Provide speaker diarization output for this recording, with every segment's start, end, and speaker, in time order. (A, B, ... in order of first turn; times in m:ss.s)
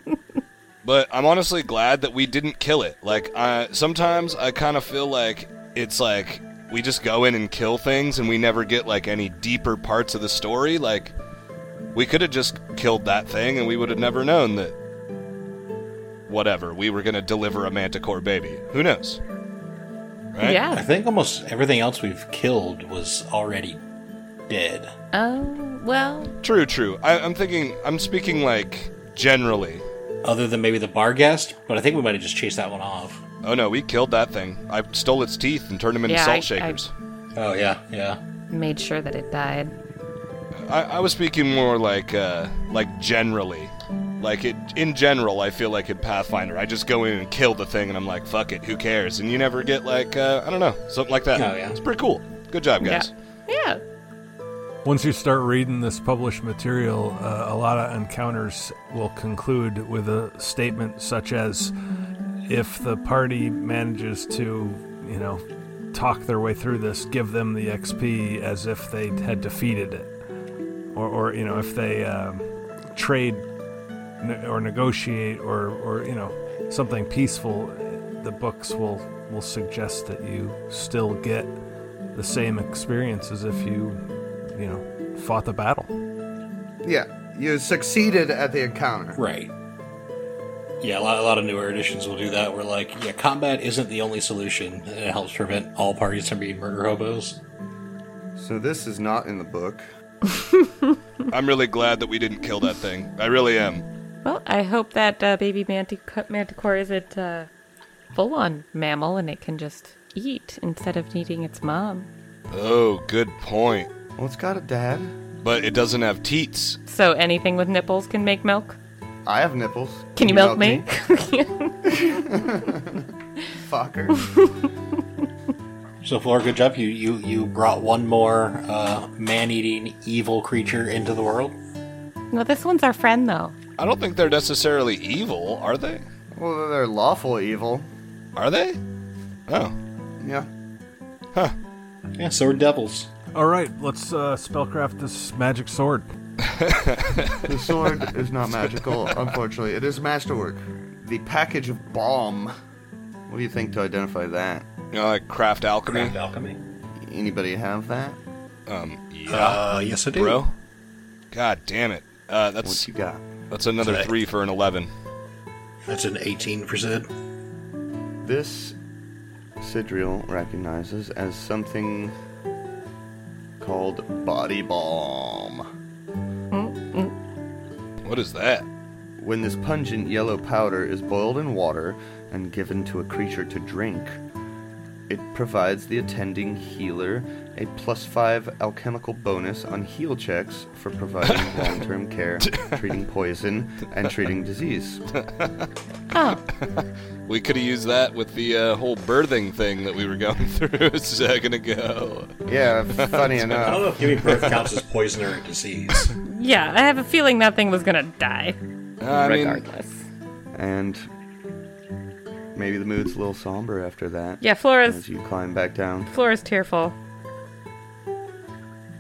0:00.8-0:11.1 A
0:11.9-0:14.7 A
0:16.3-0:19.2 A
0:20.3-0:20.6 A
0:20.4-0:20.8 B
0:20.7-0:23.8 C
0:24.5-0:24.9 C
0:25.1-0:26.3 B
0:26.4-0:29.8 A
0:30.2-0:33.2 C
0:33.4-0:36.9 A
0:36.1-0:36.8 B
0:37.3-0:38.2 C
0:38.5-0:39.7 B
0:40.6-0:53.1 A
0:51.3-0:51.8 C
0:52.8-0:53.8 B
0:54.8-1:01.7 D
1:02.5-1:10.1 D
1:10.9-1:13.4 D
1:14.2-1:21.5 D
1:22.1-1:25.9 D
1:26.8-1:29.2 E
1:29.2-1:29.5 C
1:30.8-1:37.4 C
1:38.3-1:39.9 E
1:41.3-1:43.8 A
1:44.2-1:47.5 B
1:48.1-1:52.1 B
1:52.5-1:53.9 A
1:54.2-1:55.1 E
1:55.4-1:56.8 A
1:56.9-1:58.8 B
1:59.2-2:00.9 E
2:00.2-2:02.1 B
2:01.8-2:04.3 E
2:06.0-2:11.6 C
2:12.3-2:13.5 B
2:13.8-2:16.0 A
2:16.3-2:17.9 E
2:18.4-2:18.8 A
2:19.5-2:19.7 A
2:20.2-2:20.5 E
2:22.1-2:23.1 C
2:23.3-2:26.1 D
2:26.4-2:27.9 A
2:27.4-2:32.5 E
2:33.3-2:34.6 E
2:34.9-2:36.2 A
2:35.9-2:36.6 C
2:37.0-2:38.2 E
2:38.7-2:40.5 A
2:39.3-2:40.4 C
2:41.3-2:42.8 A
2:42.6-2:43.2 E
2:43.5-2:44.9 A
2:43.8-2:44.1 C
2:45.8-2:47.1 C
2:48.2-2:48.8 E
2:49.6-2:52.1 E
2:53.6-2:55.7 E
2:56.5-2:57.1 B
2:58.0-2:58.6 A
2:59.2-3:04.2 E
3:05.1-3:15.0 E
3:12.5-3:12.8 A
3:16.1-3:16.4 B
3:17.2-3:22.3 A
3:22.4-3:24.2 E
3:22.9-3:24.6 A
3:23.5-3:26.1 C
3:26.2-3:28.6 B
3:29.0-3:29.6 A
3:29.1-3:30.0 B
3:30.5-3:31.0 E
3:32.5-3:36.1 E
3:34.4-3:35.0 B
3:36.1-3:36.9 B